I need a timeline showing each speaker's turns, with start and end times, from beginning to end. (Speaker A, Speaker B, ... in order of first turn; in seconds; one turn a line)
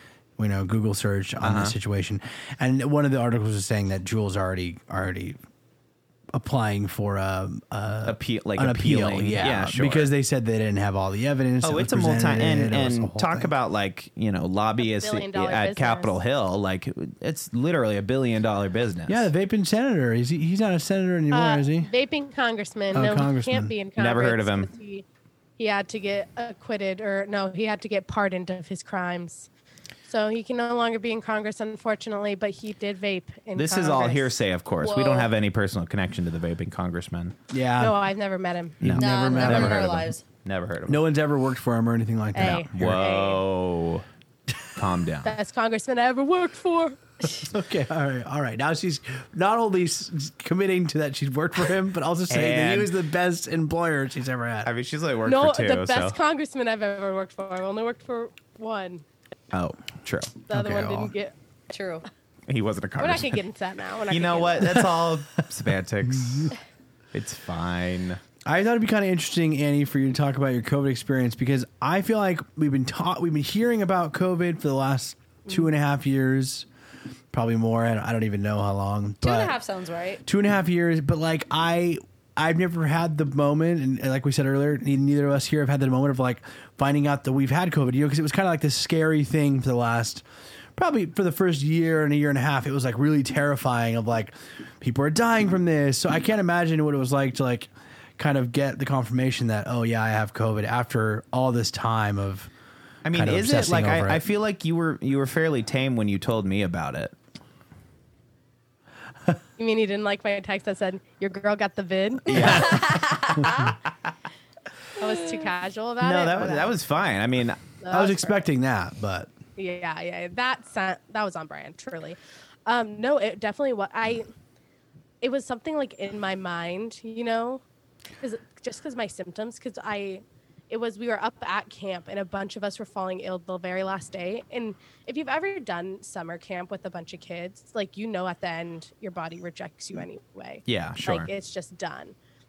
Speaker A: 0.4-5.4
Speaker B: 1.4-1.8
Speaker A: 6.3-13.5
Speaker B: 8.1-10.1
Speaker B: 11.6-19.2
Speaker C: 14.8-16.2
Speaker A: 19.1-21.9
Speaker C: 21.3-25.0
Speaker A: 22.9-23.7
Speaker B: 24.0-24.7
Speaker C: 25.6-29.5
Speaker C: 30.1-34.3
Speaker B: 33.5-37.3
Speaker D: 34.8-35.3
Speaker A: 37.5-37.9
Speaker C: 37.8-38.8
Speaker A: 38.8-40.1
Speaker B: 38.8-41.0
Speaker D: 38.9-40.2
Speaker A: 40.9-43.0
Speaker C: 42.3-43.4
Speaker B: 42.8-44.0
Speaker B: 44.7-45.3
Speaker C: 45.2-47.0
Speaker A: 47.4-54.7
Speaker B: 52.3-52.9
Speaker B: 54.6-56.2
Speaker C: 55.2-59.0
Speaker B: 59.5-60.3
Speaker C: 60.5-61.3
Speaker A: 60.5-61.1
Speaker D: 61.7-62.0
Speaker B: 62.5-63.4
Speaker C: 63.0-64.8
Speaker B: 64.1-66.5
Speaker A: 66.0-66.5
Speaker B: 67.1-68.2
Speaker A: 68.4-76.7
Speaker A: 77.3-79.6
Speaker D: 79.2-80.2
Speaker A: 80.2-102.5
Speaker B: 103.0-107.1
Speaker A: 103.1-104.2
Speaker C: 109.6-112.6
Speaker B: 112.3-114.1
Speaker D: 112.3-113.8
Speaker A: 112.4-112.8
Speaker A: 113.4-113.7
Speaker C: 115.0-116.7
Speaker D: 115.0-115.4
Speaker B: 116.0-117.6
Speaker C: 117.8-118.3
Speaker A: 117.9-119.3
Speaker C: 119.5-124.3
Speaker C: 125.2-127.6
Speaker C: 128.2-142.1
Speaker B: 140.7-141.3